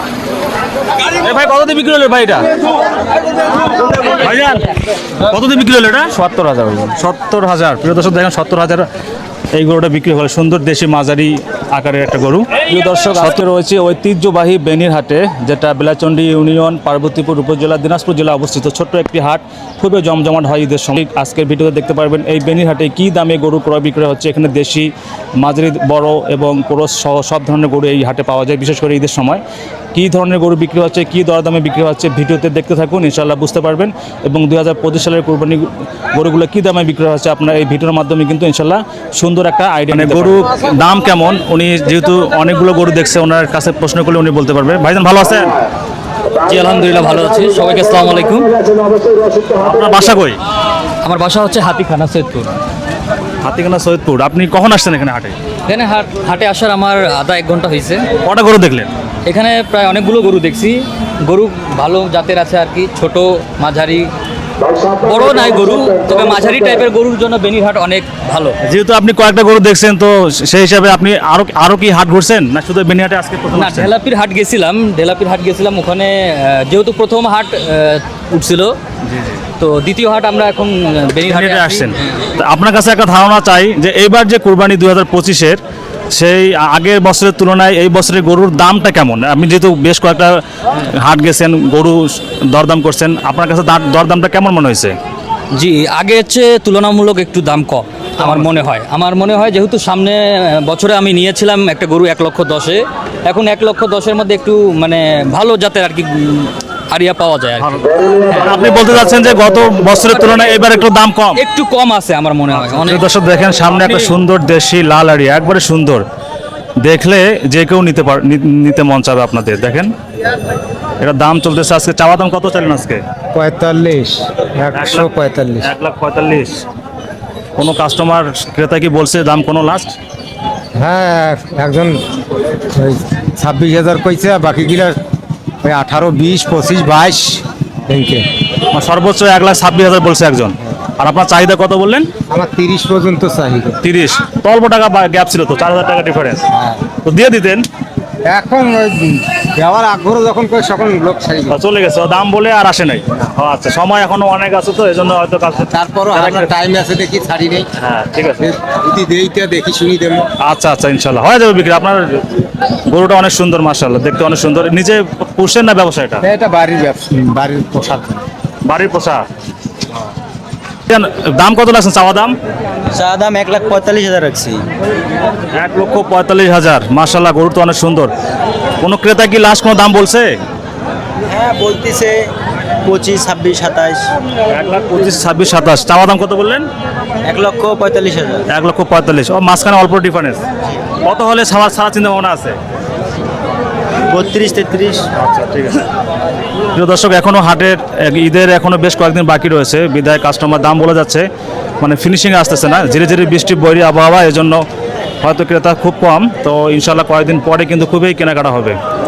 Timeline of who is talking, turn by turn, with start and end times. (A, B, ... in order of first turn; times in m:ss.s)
0:01.2-0:02.4 A
0:03.9-0:04.7 A
0:05.2-0:08.9 A
0:09.5-0:29.4 A
0:29.9-0:45.5 A
0:39.9-0:40.3 B
0:46.4-0:49.1 B
0:49.5-0:50.4 A
0:51.0-0:52.6 B
0:53.4-0:55.4 A
0:55.7-0:58.1 B
0:58.2-0:58.9 A
0:59.2-1:04.1 B
1:04.8-1:08.6 B
1:08.6-1:13.9 A
1:13.5-1:18.8 B
1:19.0-1:19.4 A
1:19.6-1:22.1 B
1:21.2-1:25.6 A
1:26.1-1:35.0 A
1:35.5-1:48.4 B
1:38.2-1:38.5 A
1:47.6-1:51.4 A
1:50.1-1:50.5 B
1:51.3-1:53.1 B
1:52.5-1:56.0 A
1:56.8-1:59.9 A
2:01.0-2:03.0 A
2:03.3-2:05.7 C
2:04.7-2:05.1 A
2:05.6-2:06.6 A
2:07.6-2:10.0 A
2:10.8-2:12.0 C
2:12.6-2:15.0 C
2:15.6-2:18.2 C
2:18.7-2:22.1 A
2:22.3-2:23.8 C
2:23.8-2:26.4 A
2:26.5-2:26.8 C
2:27.0-2:27.6 A
2:28.2-2:31.6 C
2:31.5-2:36.5 A
2:35.6-2:37.7 C
2:37.8-2:38.5 A
2:38.4-2:40.3 C
2:40.4-2:42.3 A
2:42.9-2:46.2 A
2:46.2-2:48.2 C
2:48.6-2:49.2 A
2:50.9-2:52.3 A
2:52.9-2:54.7 D
2:55.5-2:58.1 A
2:58.8-3:00.4 A
3:01.2-3:02.3 D
3:02.8-3:04.1 D
3:04.5-3:06.7 A
3:07.2-3:08.4 D
3:08.5-3:10.4 A
3:11.0-3:12.6 A
3:14.1-3:15.0 D
3:15.2-3:15.8 A
3:16.7-3:21.3 A
3:21.8-3:24.6 A
3:25.2-3:28.8 A